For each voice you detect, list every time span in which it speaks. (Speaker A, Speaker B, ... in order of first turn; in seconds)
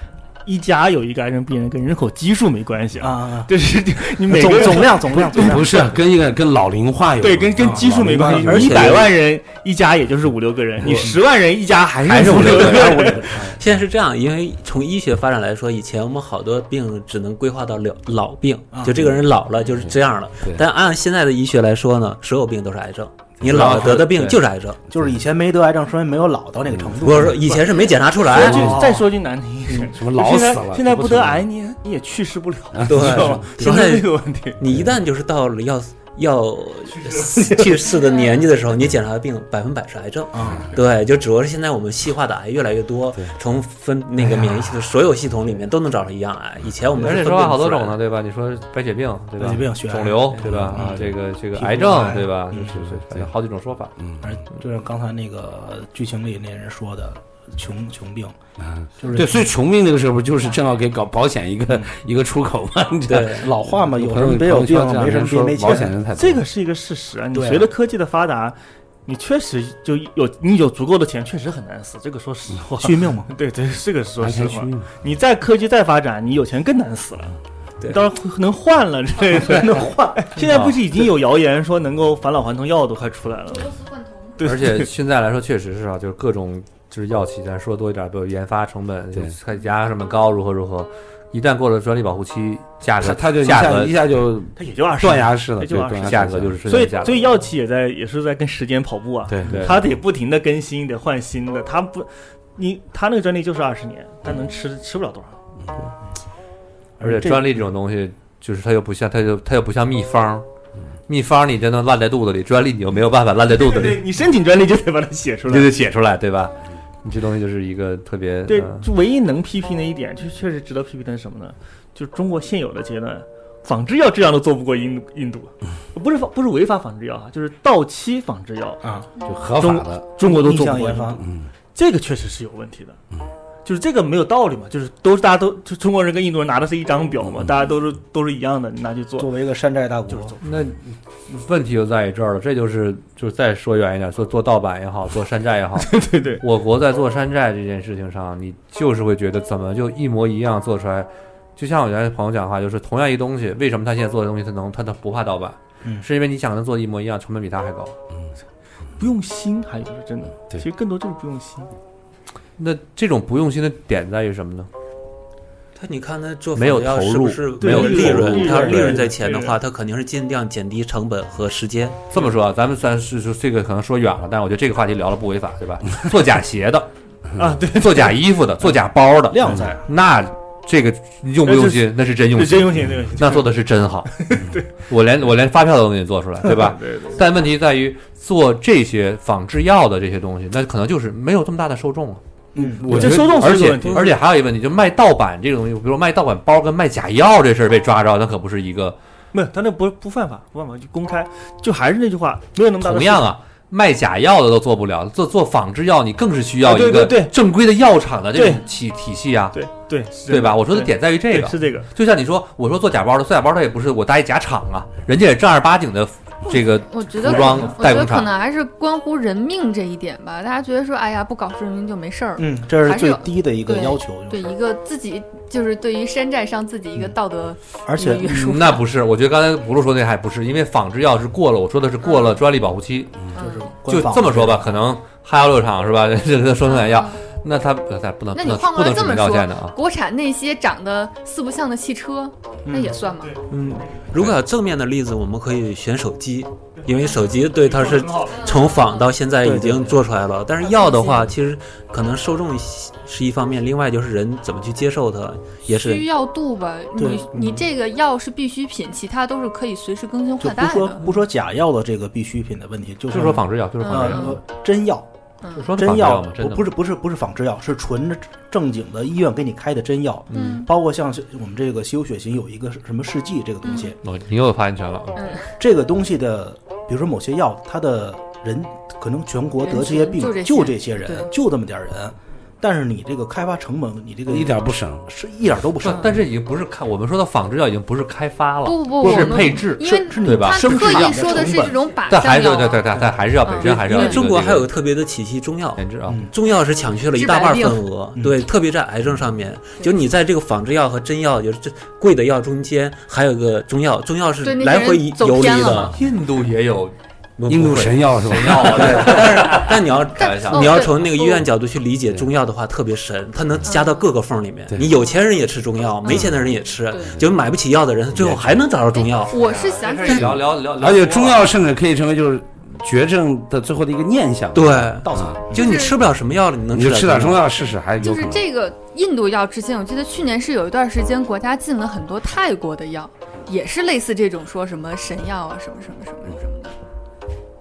Speaker A: 0.4-5.8, 7.2-13.4, 28.3-34.6, 37.0-37.6, 66.1-83.8, 84.4-84.9, 94.6-105.4, 113.6-115.7, 118.5-128.8, 129.6-131.2, 131.7-133.0, 133.6-139.3, 140.1-140.6, 145.8-146.4, 159.0-161.7, 167.6-169.6, 177.4-178.2, 181.4-183.5, 184.2-184.7, 186.5-187.2, 192.6-194.1, 199.3-203.3, 206.6-207.3, 208.3-208.6, 209.5-211.9, 243.2-244.1, 246.8-248.5
Speaker B: 3.0-3.5, 4.2-5.9, 7.6-9.0, 10.8-11.2, 12.5-13.6, 18.7-19.1, 24.9-29.0, 40.3-40.8, 44.4-44.7, 49.4-52.8, 54.2-58.4, 59.0-59.5, 63.2-65.9, 67.3-67.7, 72.8-73.3, 79.4-80.4, 107.0-107.6, 128.8-129.1, 130.2-131.3, 139.2-140.3, 179.3-179.9, 192.5-193.3, 222.4-224.6, 227.9-228.6, 233.3-234.8, 242.7-243.0, 249.4-250.0, 256.9-257.3, 260.4-265.1, 265.7-274.0, 275.6-286.3, 289.0-292.0, 292.9-293.3, 296.1-296.3, 298.1-298.4, 325.1-325.6
Speaker C: 5.0-9.0, 19.8-20.6, 23.4-24.3, 26.8-27.2, 28.4-28.9, 29.9-31.4, 32.7-33.8, 50.4-51.1, 52.5-53.3, 54.0-54.3, 58.6-66.4, 74.2-74.9, 93.0-96.6, 99.3-99.6, 129.2-130.1, 131.2-131.5, 284.3-285.1, 307.5-309.5, 316.1-316.4, 318.1-318.7, 320.1-325.6, 326.7-328.5
Speaker D: 12.1-13.2, 46.9-54.0, 80.5-80.7, 84.4-94.0, 96.0-97.1, 99.5-99.9, 107.0-110.4, 111.1-114.0, 115.5-118.8, 140.4-157.9, 162.6-164.7, 166.5-168.6, 172.1-176.9, 177.7-192.2, 192.8-199.0, 202.8-209.6, 210.3-218.3, 228.3-233.2, 233.8-239.7, 263.1-264.4, 265.6-266.7, 274.0-275.3, 285.8-294.7, 295.8-296.3, 305.9-306.9, 308.1-310.9, 319.4-321.5
Speaker E: 13.4-24.8, 27.0-28.7, 32.9-48.0, 63.1-63.5, 165.7-172.1, 243.5-256.1, 293.6-305.9, 307.4-319.4, 324.5-327.5
Speaker F: 83.6-84.4, 216.4-228.8, 232.0-232.4, 233.3-233.7, 236.6-237.2, 238.3-243.4, 248.2-249.1, 250.6-251.3, 255.8-261.0, 263.8-264.4, 265.4-265.7, 270.3-270.7, 273.6-273.9, 275.1-275.6, 279.6-281.3, 288.6-292.9, 293.4-294.2, 297.1-297.8, 304.4-306.0, 310.1-311.5, 313.6-314.1, 314.8-315.2, 316.0-317.2, 318.9-320.4, 325.5-326.0, 328.0-336.7